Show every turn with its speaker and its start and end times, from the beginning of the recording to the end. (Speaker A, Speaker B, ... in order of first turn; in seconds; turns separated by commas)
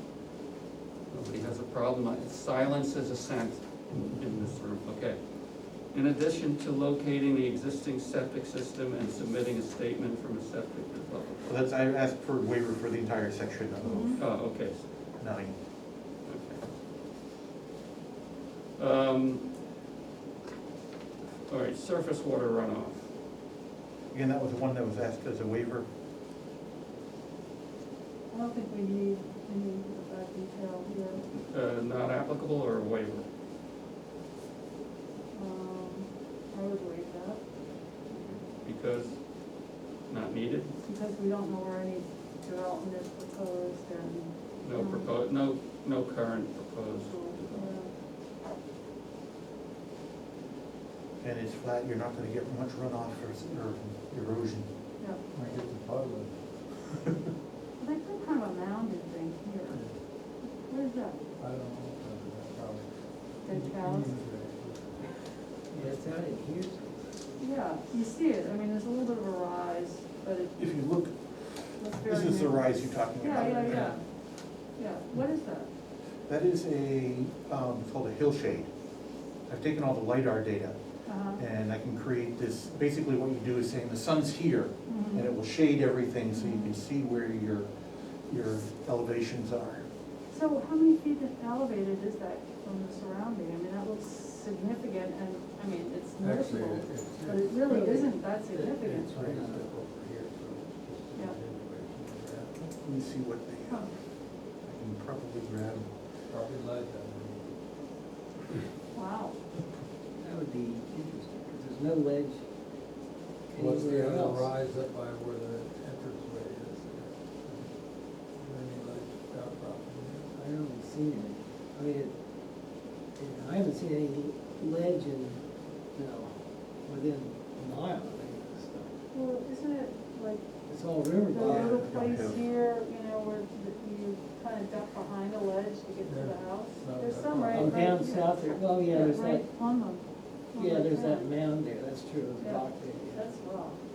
Speaker A: 1.1-5.2, Speaker A: 5.9-11.5, Speaker B: 11.5-14.2, Speaker C: 13.8-14.2, Speaker A: 14.2-14.8, Speaker B: 15.2-15.5, Speaker A: 16.2-16.6, Speaker A: 18.8-19.5, Speaker A: 21.5-23.1, Speaker B: 24.1-25.9, Speaker C: 28.3-31.2, Speaker A: 31.3-33.3, Speaker C: 35.3-37.4, Speaker A: 38.1-39.2, Speaker A: 40.1-40.7, Speaker C: 40.8-45.1, Speaker A: 44.6-47.7, Speaker C: 47.1-47.9, Speaker B: 51.2-54.7, Speaker D: 55.3-57.1, Speaker C: 57.8-59.8, Speaker D: 59.7-60.0, Speaker C: 60.6-61.2, Speaker D: 61.4-62.9, Speaker C: 63.4-64.1, Speaker D: 63.4-65.1, Speaker E: 65.7-67.3, Speaker C: 67.4-70.6, Speaker B: 70.6-74.0, Speaker C: 71.8-74.0, Speaker C: 74.8-75.7, Speaker B: 76.3-78.7, Speaker B: 79.5-80.8, Speaker C: 81.1-81.4, Speaker B: 81.4-87.7, Speaker C: 84.9-85.2, Speaker C: 86.4-86.7, Speaker B: 88.3-89.9, Speaker C: 90.3-99.3, Speaker D: 96.2-97.9, Speaker E: 97.8-98.1, Speaker D: 98.5-102.7, Speaker E: 99.2-99.7, Speaker B: 102.8-103.9, Speaker B: 104.6-105.9, Speaker D: 106.3-107.6, Speaker C: 108.9-109.4, Speaker E: 110.2-112.4, Speaker E: 113.5-114.5, Speaker D: 113.5-117.7, Speaker D: 118.3-120.3, Speaker E: 120.3-122.1, Speaker E: 123.2-125.4, Speaker E: 125.9-129.0, Speaker C: 129.1-130.5, Speaker E: 130.7-131.8, Speaker C: 131.2-141.3, Speaker B: 131.4-132.4, Speaker D: 136.1-138.0, Speaker E: 137.5-139.5, Speaker E: 140.6-143.3, Speaker C: 142.4-143.8